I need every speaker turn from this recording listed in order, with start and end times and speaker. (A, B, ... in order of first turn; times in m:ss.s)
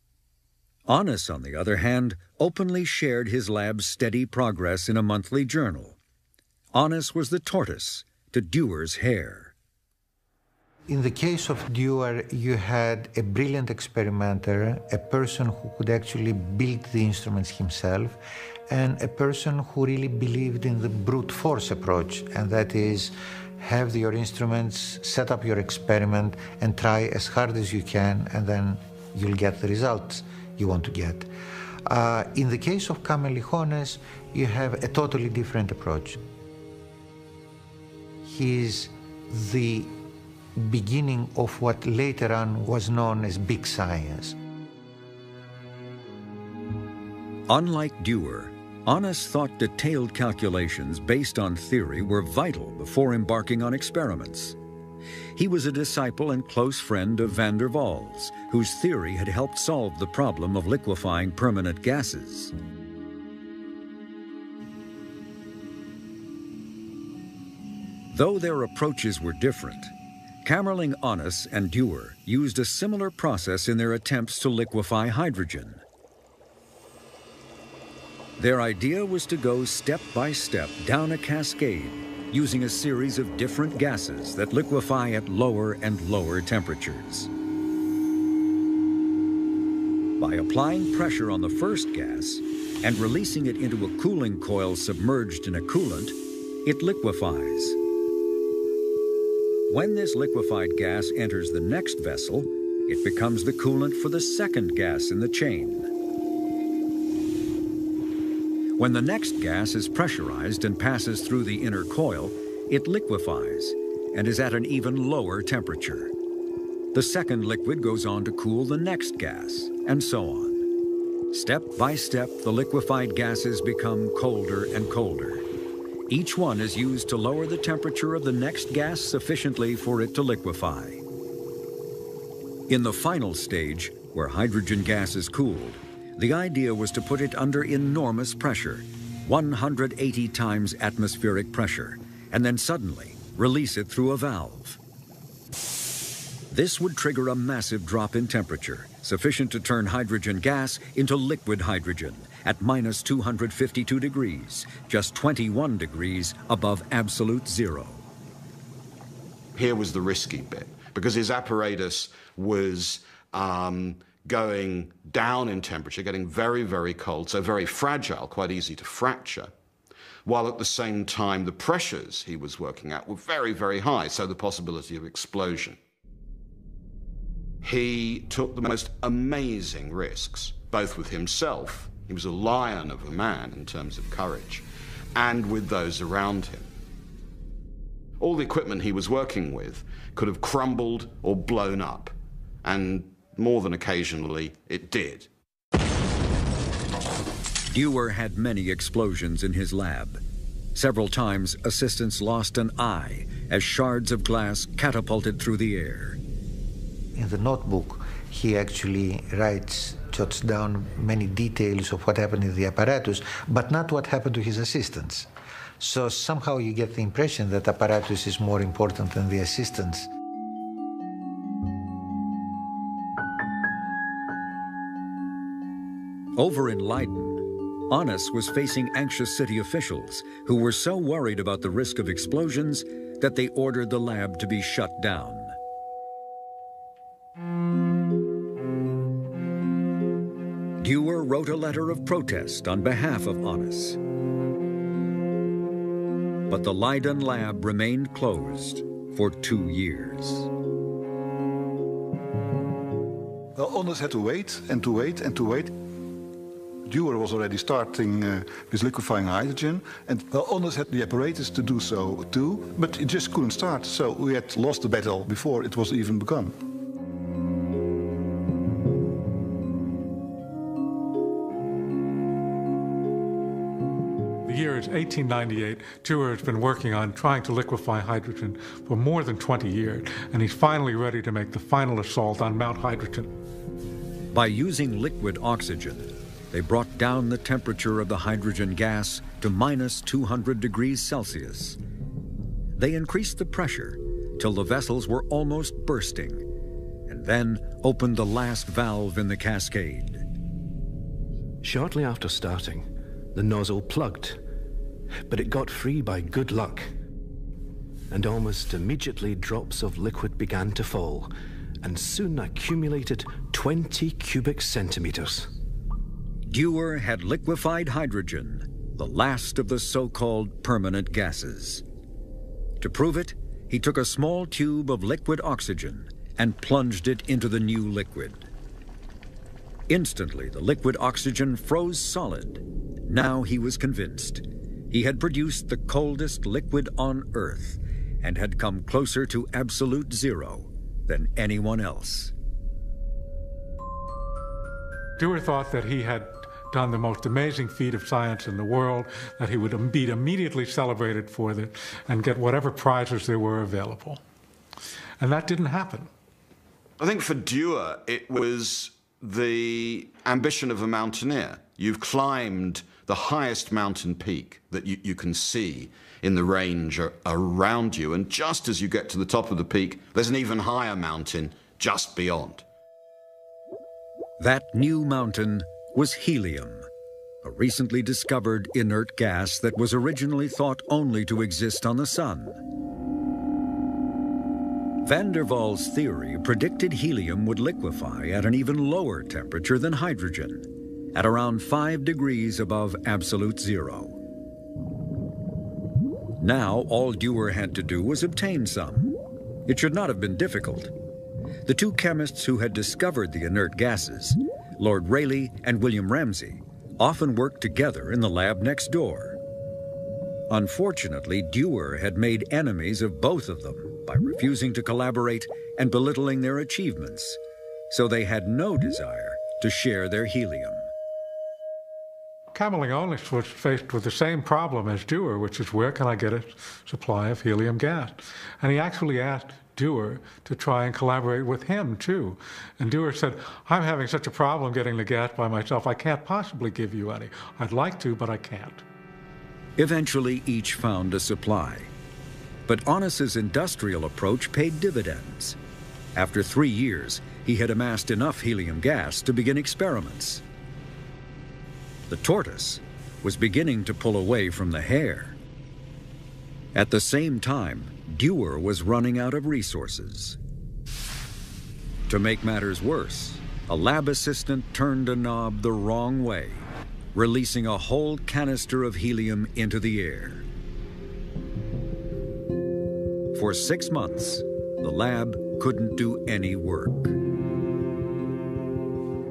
0:00.9-0:06.0 A
0:06.7-0:09.5 A
0:10.9-0:31.3 B
0:31.8-0:36.2 B
0:38.2-0:39.9 B
0:40.5-0:44.4 B
0:47.5-0:54.6 A
0:55.3-1:02.5 A
1:08.1-1:09.9 A
1:10.4-1:15.8 A
1:18.4-1:27.3 A
1:30.2-1:37.8 A
1:39.7-1:45.9 A
1:48.8-1:56.1 A
1:56.9-2:00.6 A
2:01.3-2:05.4 A
2:06.1-2:11.0 A
2:12.7-2:24.8 A
2:26.5-2:38.0 A
2:39.5-2:49.5 C
2:50.2-2:55.8 C
2:57.6-3:04.6 C
3:05.1-3:06.7 C
3:08.2-3:12.1 C
3:12.6-3:15.3 C
3:17.7-3:20.2 A
3:20.7-3:26.2 A
3:27.1-3:35.3 B
3:35.8-3:40.1 B
3:46.4-3:55.6 A
4:00.8-4:04.0 A
4:06.5-4:10.5 A
4:13.5-4:15.7 D
4:16.9-4:26.6 D
4:34.4-4:43.3 E
4:44.3-4:51.8 A
4:52.8-4:56.4 A
4:57.1-5:00.2 A
5:01.6-5:04.4 F
5:05.3-5:06.9 F
5:08.1-5:15.5 F
5:16.5-5:21.8 A
5:22.8-5:28.5 A
5:29.9-5:42.3 A
5:45.2-5:54.2 E
5:55.2-5:56.1 E
5:57.0-6:12.6 C
6:14.4-6:16.9 A
6:17.4-6:22.6 A
6:25.0-6:34.2 A
6:36.4-6:39.1 A
6:39.7-6:40.9 A
6:41.6-6:49.4 A
6:50.5-6:57.4 A
6:57.9-7:00.9 A
7:02.5-7:18.8 E
7:19.8-7:21.9 A
7:22.7-7:25.6 A
7:26.1-7:30.4 A
7:32.1-7:35.4 A
7:36.7-7:40.4 A
7:42.1-7:50.4 A
7:53.3-7:57.2 A